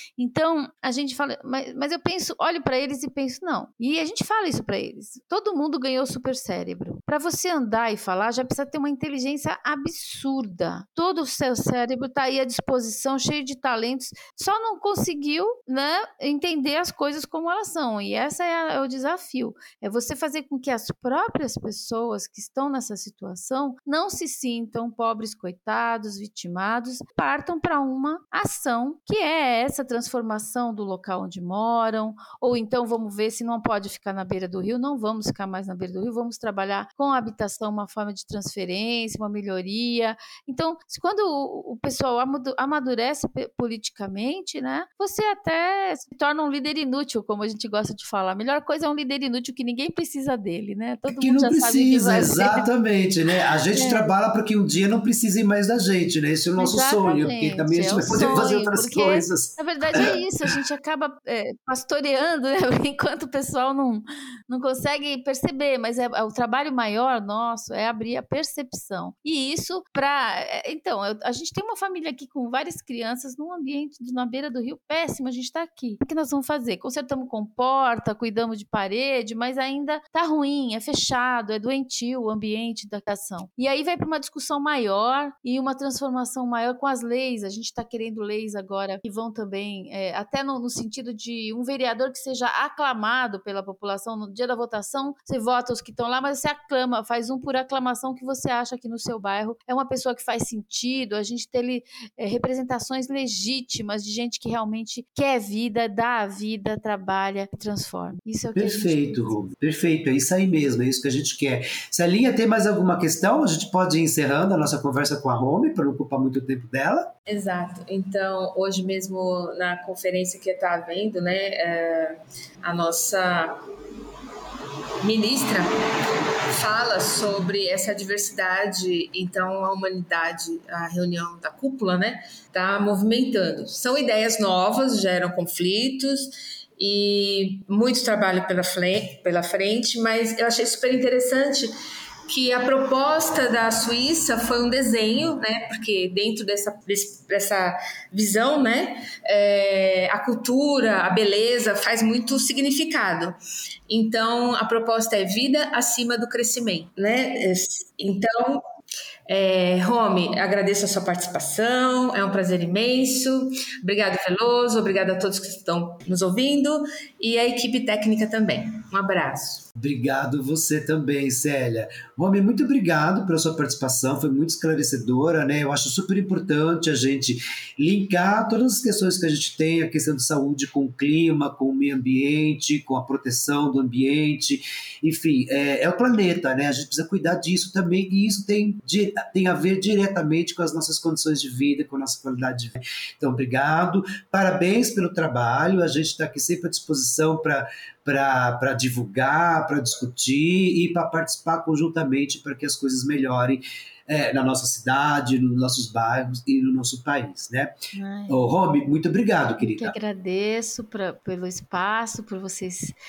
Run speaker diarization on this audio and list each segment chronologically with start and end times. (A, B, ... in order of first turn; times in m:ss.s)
0:00.2-0:52.7 A
0:51.1-1:00.1 B
0:53.7-0:54.1 A
0:56.6-1:49.4 A
1:48.5-1:57.1 B
1:57.3-2:03.6 C
2:05.0-2:05.8 C
2:06.5-2:21.7 C
2:22.3-2:33.4 C
2:33.9-2:38.6 C
2:39.3-2:49.6 C
2:49.8-3:27.7 B
3:27.9-3:28.4 A
3:28.3-3:29.9 B
3:29.6-3:32.9 A